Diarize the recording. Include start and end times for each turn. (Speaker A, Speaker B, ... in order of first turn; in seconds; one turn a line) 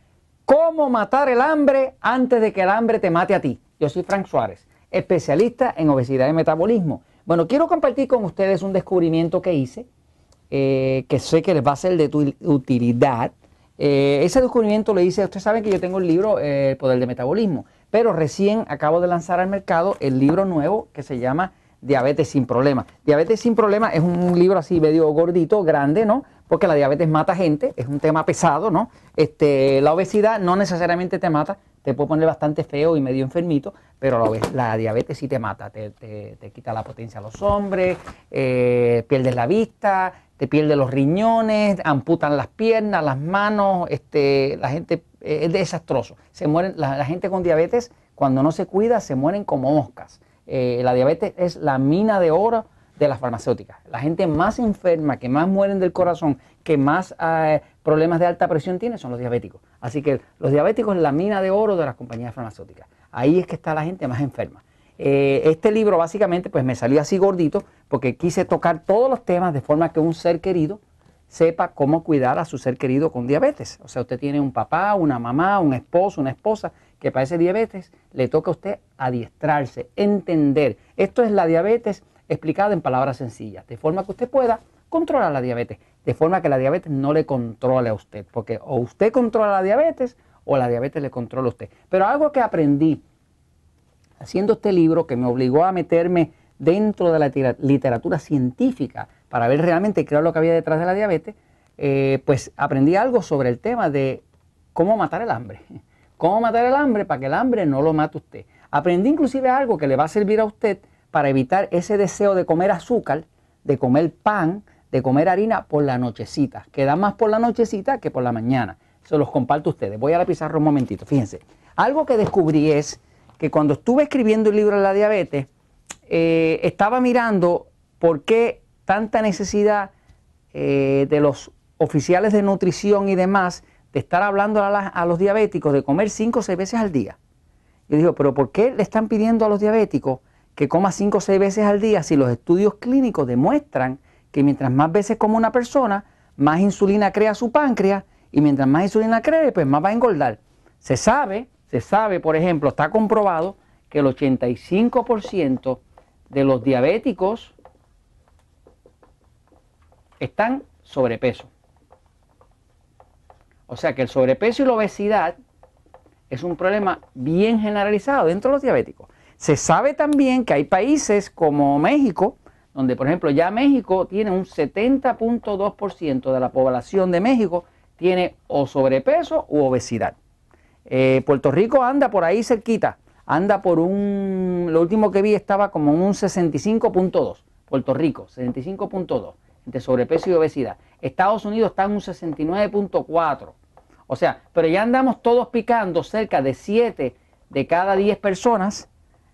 Speaker A: 0.5-9.9
Speaker A: 10.5-93.0
Speaker A: 94.2-105.6
Speaker A: 106.2-125.5
Speaker A: 126.1-129.9
Speaker A: 130.5-137.2
Speaker A: 137.9-157.5
Speaker A: 160.2-161.5
Speaker A: 163.7-165.3
Speaker A: 166.3-180.2
Speaker A: 180.9-193.6
Speaker A: 194.1-198.9